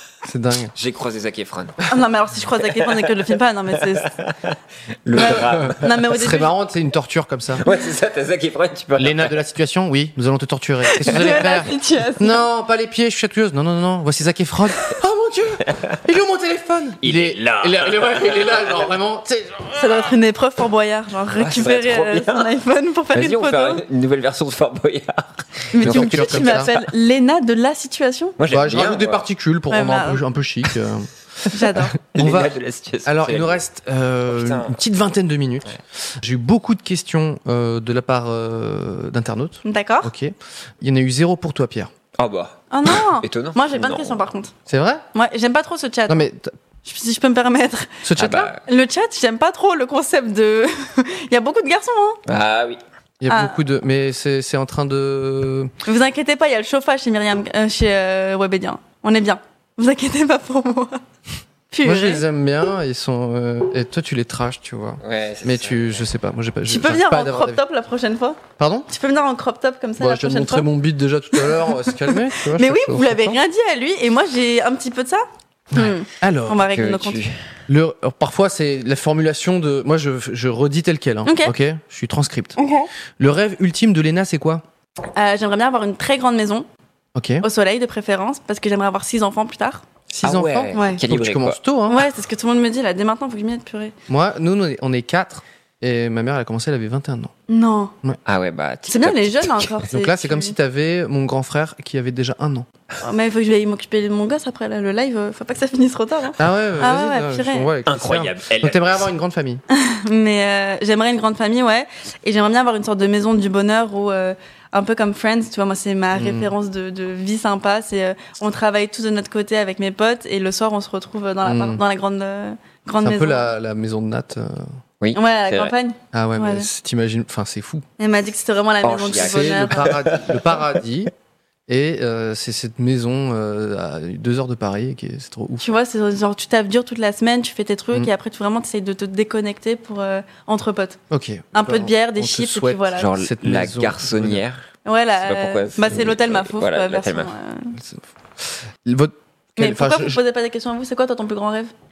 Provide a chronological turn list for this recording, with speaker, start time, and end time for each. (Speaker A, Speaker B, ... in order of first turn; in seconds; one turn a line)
Speaker A: 0.2-0.7
Speaker B: 0.7-1.8
Speaker C: 1.9-4.1
Speaker B: 2.6-5.9
Speaker C: 5.1-6.5
Speaker A: 5.2-7.6
Speaker B: 7.6-9.3
Speaker A: 9.0-19.9
Speaker C: 11.0-12.4
Speaker B: 15.7-15.9
Speaker B: 17.0-18.9
Speaker C: 19.7-23.8
Speaker B: 21.4-22.5
Speaker B: 23.1-26.9
Speaker C: 25.7-28.4
Speaker A: 25.8-26.7
Speaker B: 28.4-29.2
Speaker A: 28.5-32.5
Speaker C: 29.7-30.2
Speaker C: 31.5-32.0
Speaker B: 32.1-33.6
Speaker A: 33.0-41.9
Speaker B: 34.3-34.8
Speaker C: 39.6-40.1
Speaker B: 42.1-44.2
Speaker C: 42.7-44.5
Speaker A: 44.7-45.0
Speaker C: 45.1-46.3
Speaker A: 46.1-46.5
Speaker C: 46.8-48.0
Speaker A: 48.0-48.5
Speaker B: 48.2-48.6
Speaker C: 48.6-52.2
Speaker B: 52.2-52.8
Speaker A: 53.2-55.7
Speaker C: 53.3-53.6
Speaker C: 55.8-61.0
Speaker C: 61.7-62.2
Speaker A: 61.8-67.6
Speaker B: 65.0-66.0
Speaker C: 66.7-70.7
Speaker A: 68.6-68.9
Speaker A: 70.0-73.3
Speaker C: 71.3-77.2
Speaker A: 75.7-76.6
Speaker B: 76.7-77.4
Speaker A: 77.7-82.5
Speaker C: 81.2-81.5
Speaker C: 82.6-82.9
Speaker A: 83.2-84.6
Speaker C: 85.1-86.7
Speaker A: 87.1-87.4
Speaker C: 87.4-89.8
Speaker A: 90.1-92.0
Speaker B: 90.2-91.6
Speaker C: 90.7-91.0
Speaker C: 91.9-93.9
Speaker A: 94.1-97.3
Speaker C: 97.5-97.9
Speaker B: 98.2-99.7
Speaker C: 98.9-100.5
Speaker A: 99.9-102.7
Speaker C: 103.0-107.7
Speaker A: 106.4-109.6
Speaker B: 107.8-109.1
Speaker C: 109.7-123.5
Speaker A: 116.1-116.5
Speaker A: 121.4-121.8
Speaker A: 123.0-124.7
Speaker B: 125.0-125.7
Speaker C: 125.1-126.7
Speaker A: 126.1-127.8
Speaker C: 128.0-130.0
Speaker B: 128.8-130.6
Speaker A: 129.1-131.1
Speaker A: 131.7-135.6
Speaker C: 135.6-141.0
Speaker A: 141.1-144.4
Speaker C: 141.5-143.1
Speaker B: 142.9-147.3
Speaker C: 144.8-147.8
Speaker A: 147.8-150.2
Speaker C: 149.6-151.7